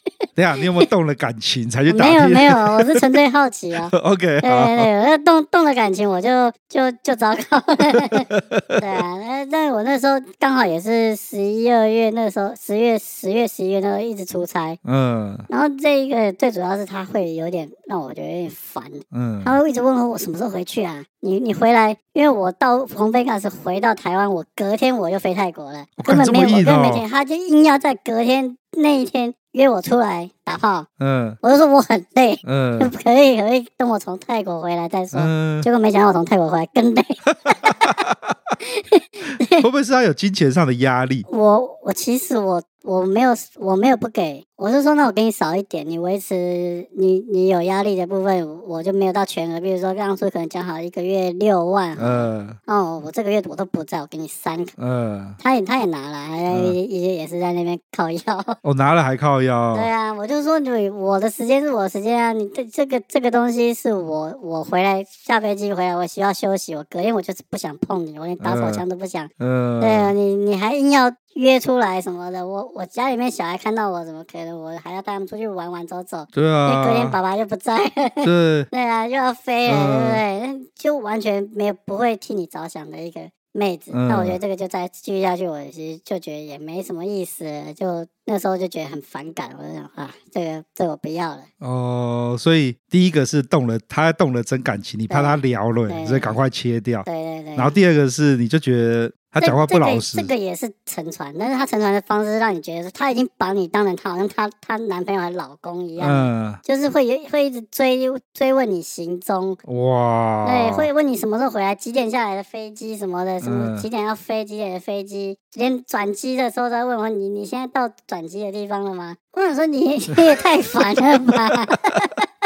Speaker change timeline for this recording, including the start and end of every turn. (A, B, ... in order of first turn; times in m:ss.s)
0:00.4-0:03.1 A
0:00.6-0:00.8 B
0:01.9-0:14.8 B
0:03.9-0:04.9 A
0:08.3-0:08.8 A
0:14.8-0:15.5 A
0:15.5-0:30.9 B
0:19.1-0:19.6 A
0:26.0-0:27.0 A
0:31.0-0:31.4 A
0:31.4-0:38.0 B
0:32.4-0:32.9 A
0:35.1-0:35.7 A
0:37.6-0:38.3 A
0:38.6-0:39.6 B
0:39.4-0:41.3 A
0:41.3-0:54.7 B
0:52.0-0:52.6 A
0:54.8-0:55.4 A
0:55.4-0:58.6 B
0:56.5-0:56.8 A
0:58.6-0:59.9 A
0:59.7-1:31.5 B
1:08.4-1:08.8 A
1:09.4-1:10.1 A
1:16.3-1:17.2 A
1:18.2-1:18.7 A
1:19.6-1:20.2 A
1:23.9-1:24.4 A
1:31.6-1:40.3 A
1:35.1-1:36.4 B
1:37.0-1:37.8 B
1:39.4-1:49.6 B
1:46.0-1:46.6 A
1:49.6-1:50.9 A
1:50.4-2:02.2 B
1:53.4-1:53.9 A
2:01.3-2:01.5 A